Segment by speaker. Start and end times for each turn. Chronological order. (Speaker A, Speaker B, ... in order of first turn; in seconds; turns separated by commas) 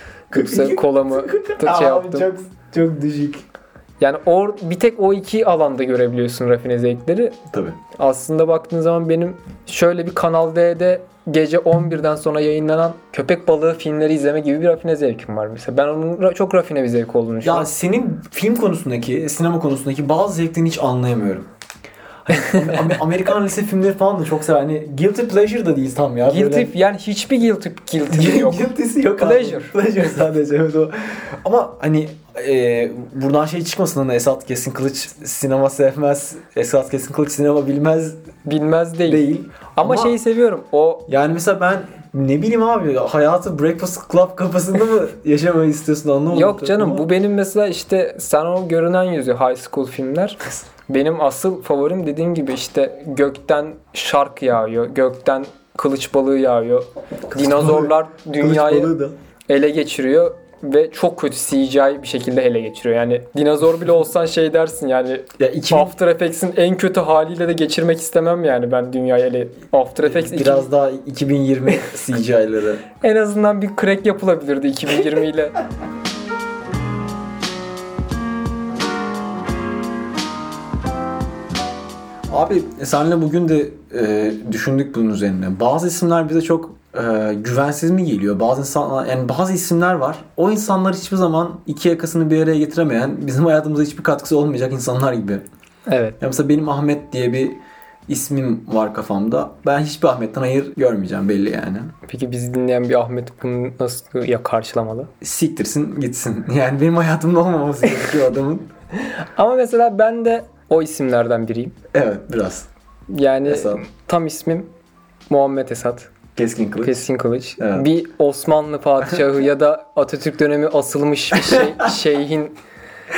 Speaker A: 0.3-2.3, Speaker B: 0.3-3.4, Speaker A: 4.0-7.4, Speaker B: 7.5-7.8, Speaker A: 7.9-17.7, Speaker B: 17.4-21.5, Speaker B: 22.2-26.7, Speaker A: 26.2-29.7, Speaker B: 28.1-38.2, Speaker A: 38.4-39.2, Speaker B: 39.0-40.1, Speaker A: 39.7-41.1, Speaker B: 41.1-47.1, Speaker A: 46.3-58.9, Speaker B: 57.3-59.1, Speaker A: 59.5-70.7, Speaker B: 65.4-65.9, Speaker B: 70.0-72.9, Speaker A: 73.0-75.5, Speaker B: 82.3-95.4, Speaker A: 95.9-96.2, Speaker B: 96.2-102.0, Speaker A: 102.0-105.1, Speaker B: 105.2-108.7, Speaker A: 109.0-111.8, Speaker B: 111.9-112.7, Speaker A: 113.1-114.7, Speaker B: 113.4-113.8, Speaker A: 115.3-116.1, Speaker B: 116.3-117.1, Speaker A: 116.8-122.6, Speaker B: 117.6-117.9